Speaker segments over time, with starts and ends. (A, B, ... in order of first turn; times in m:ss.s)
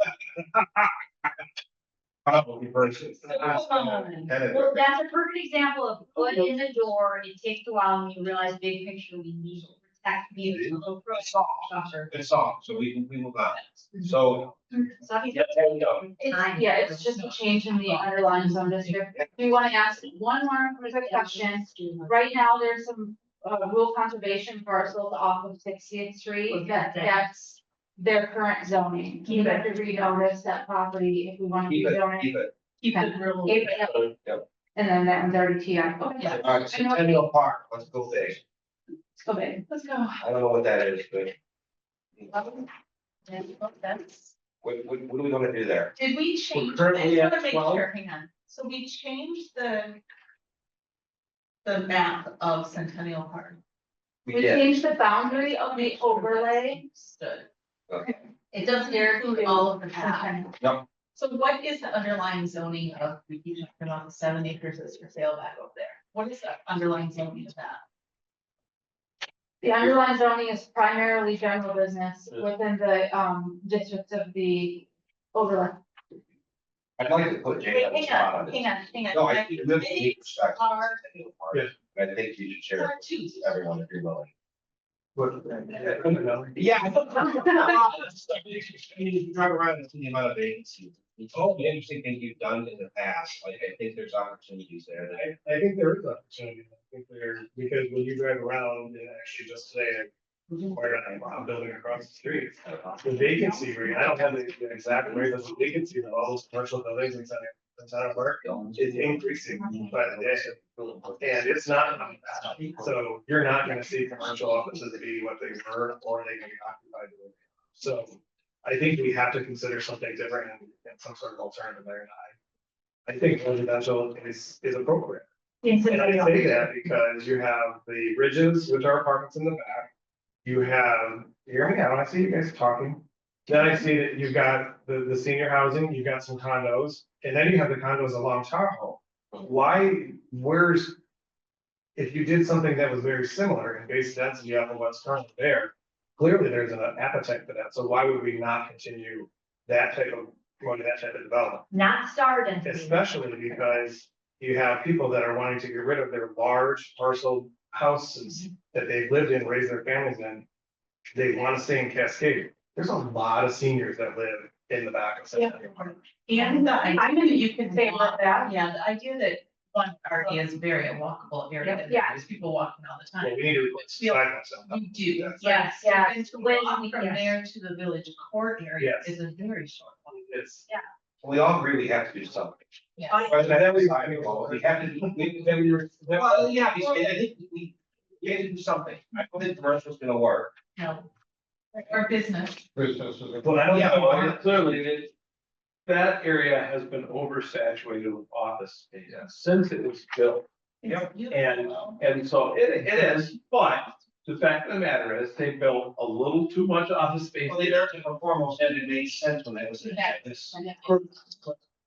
0:02.2-0:04.8 A
0:03.3-0:04.3 B
0:04.5-0:12.1 C
0:10.4-0:14.6 A
0:13.5-0:14.1 B
0:15.0-0:16.7 C
0:15.3-0:16.1 A
0:16.2-0:34.0 D
0:16.8-0:19.0 B
0:21.0-0:22.1 C
0:26.5-0:27.2 C
0:29.3-0:29.8 C
0:31.7-0:32.5 A
0:32.8-0:34.1 B
0:33.8-0:34.0 C
0:34.7-0:37.3 D
0:36.2-0:36.5 B
0:36.3-0:38.4 A
0:39.2-0:39.6 D
0:39.6-0:40.2 B
0:40.2-0:41.4 A
0:42.3-0:42.7 B
0:43.3-0:44.3 B
0:44.6-0:45.9 A
0:46.0-0:50.0 B
0:46.5-0:47.9 E
0:51.6-0:53.6 B
0:54.3-0:54.7 A
0:54.3-0:56.8 D
0:55.2-0:57.5 B
0:57.9-0:58.2 A
0:58.5-1:00.5 B
0:58.8-1:00.5 D
1:01.1-1:07.8 B
1:09.6-1:15.8 D
1:17.0-1:24.3 A
1:17.7-1:21.0 B
1:22.7-1:23.6 B
1:25.1-1:26.6 F
1:25.8-1:35.2 A
1:35.1-1:40.1 F
1:40.6-1:50.6 F
1:42.7-1:43.0 A
1:48.4-1:49.0 A
1:49.9-1:51.3 A
1:51.2-2:02.3 F
1:52.5-1:52.8 A
2:03.1-2:05.2 F
2:05.6-2:06.5 C
2:05.9-2:09.9 F
2:10.4-2:21.0 F
2:22.0-2:31.7 F
2:31.7-2:33.0 C
2:32.6-2:40.5 F
2:41.1-2:46.0 F
2:46.2-3:00.2 B
2:46.3-2:48.5 D
2:53.2-2:54.8 F
2:55.0-2:55.4 A
2:55.4-2:57.3 C
2:58.8-2:59.2 F
3:00.1-3:00.7 F
3:01.2-3:02.6 A
3:03.0-3:03.3 B
3:03.1-3:03.5 C
3:03.2-3:10.5 A
3:03.3-3:06.7 F
3:10.8-3:11.1 B
3:11.7-3:12.6 B
3:12.8-3:15.1 E
3:13.4-3:14.4 F
3:13.7-3:14.4 A
3:15.9-3:20.5 E
3:20.8-3:22.0 B
3:21.3-3:27.9 E
3:27.5-3:30.6 A
3:30.8-3:31.6 E